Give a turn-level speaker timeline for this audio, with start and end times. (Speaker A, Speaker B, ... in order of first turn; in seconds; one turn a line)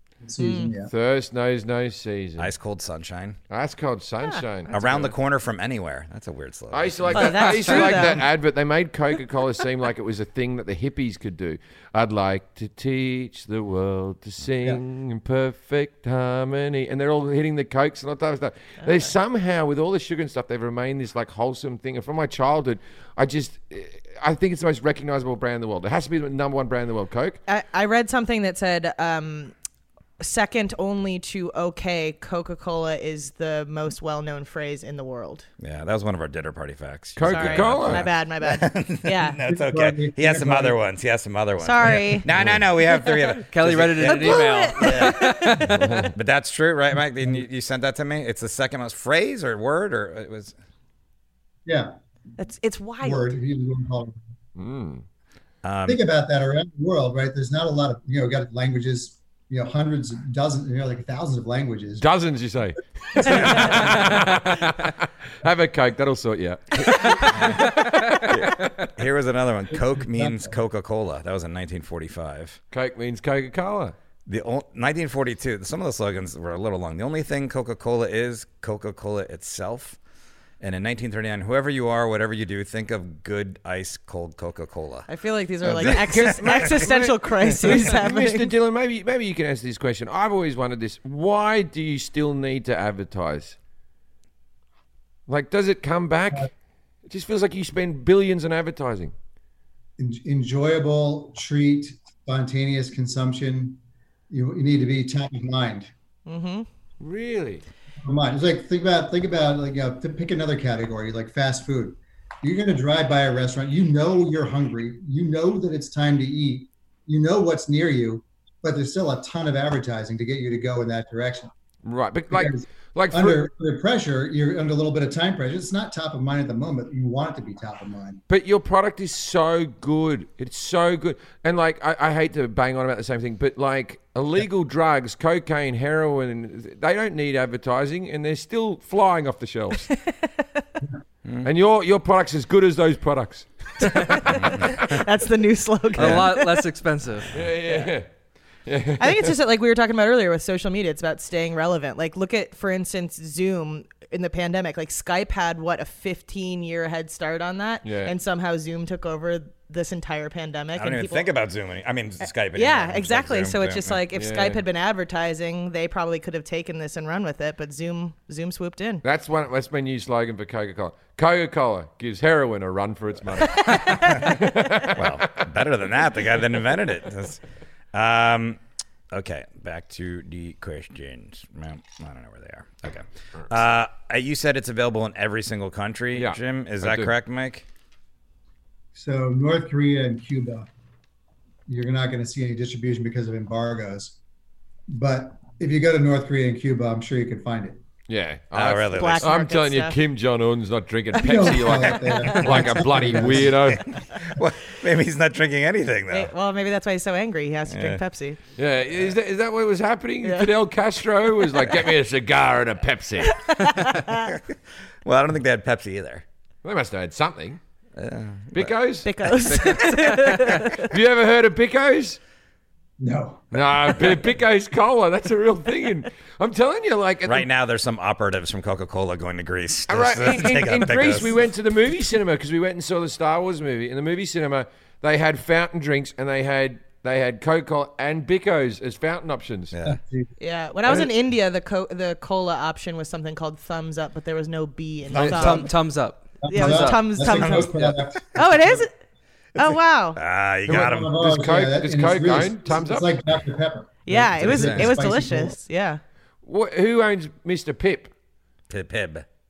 Speaker A: 0.2-0.9
Speaker B: 0.4-0.7
Speaker C: 0.9-2.5
Speaker D: 2.4-3.4
Speaker C: 3.5-5.1
Speaker D: 4.7-7.5
Speaker C: 6.7-27.4
Speaker B: 7.1-8.2
Speaker E: 7.5-8.1
Speaker B: 27.5-29.5
Speaker B: 30.2-35.5
Speaker D: 35.6-45.3
Speaker C: 37.1-38.0
Speaker B: 37.2-39.4
Speaker A: 39.4-40.8
Speaker B: 41.6-42.2
Speaker B: 42.9-43.2
Speaker E: 43.5-46.0
Speaker B: 44.0-45.7
Speaker C: 45.8-46.1
Speaker D: 46.1-50.5
Speaker A: 51.6-51.9
Speaker B: 52.4-53.4
Speaker A: 53.0-54.2
Speaker C: 54.5-55.0
Speaker D: 55.6-56.0
Speaker A: 55.9-62.0
Speaker C: 62.0-68.4
Speaker D: 63.2-63.9
Speaker D: 68.3-72.6
Speaker A: 69.7-70.5
Speaker C: 72.7-73.9
Speaker D: 74.3-80.0
Speaker D: 80.6-85.1
Speaker B: 85.1-88.5
Speaker D: 85.6-86.9
Speaker C: 85.8-87.1
Speaker C: 87.6-93.5
Speaker C: 95.3-96.5
Speaker C: 97.0-99.1
Speaker A: 100.0-103.8
Speaker A: 104.3-105.9
Speaker B: 106.3-106.7
Speaker C: 107.0-107.6
Speaker A: 108.0-121.5
Speaker C: 121.8-123.5
Speaker A: 122.3-128.2
Speaker C: 128.3-139.9
Speaker B: 139.9-140.6
Speaker C: 141.4-144.2
Speaker B: 143.9-146.7
Speaker E: 145.9-147.4
Speaker C: 147.3-148.1
Speaker C: 148.7-149.3
Speaker B: 149.0-161.3
Speaker C: 157.8-158.1
Speaker D: 160.8-164.0
Speaker B: 162.5-169.0
Speaker C: 164.1-164.6
Speaker C: 169.0-175.1
Speaker B: 173.5-174.3
Speaker D: 174.9-177.4
Speaker D: 177.9-178.6
Speaker D: 179.1-187.6
Speaker C: 186.1-187.1
Speaker A: 188.9-190.7
Speaker A: 191.7-194.2
Speaker A: 194.9-197.8
Speaker C: 198.1-203.8
Speaker D: 198.5-199.4
Speaker B: 198.9-200.0
Speaker A: 201.2-203.8
Speaker D: 203.7-206.3
Speaker B: 206.1-208.4
Speaker D: 207.7-208.0
Speaker C: 208.6-213.3
Speaker B: 210.2-210.5
Speaker B: 213.3-214.3
Speaker D: 215.0-216.2
Speaker C: 216.6-217.6
Speaker D: 217.9-218.7
Speaker C: 218.5-219.1
Speaker B: 219.0-220.9
Speaker C: 220.9-222.2
Speaker A: 223.0-223.6
Speaker C: 223.5-227.5
Speaker D: 227.3-231.3
Speaker C: 229.9-239.7
Speaker D: 239.7-240.0
Speaker A: 239.8-240.3
Speaker B: 240.4-245.7
Speaker D: 245.1-245.6
Speaker E: 245.2-247.1
Speaker A: 246.4-248.9
Speaker B: 246.5-248.9
Speaker D: 247.3-247.7
Speaker B: 249.6-250.2
Speaker D: 250.2-251.2
Speaker A: 250.7-255.6
Speaker C: 250.7-253.1
Speaker B: 254.1-256.0
Speaker D: 254.4-254.9
Speaker C: 256.4-258.1
Speaker D: 258.7-259.2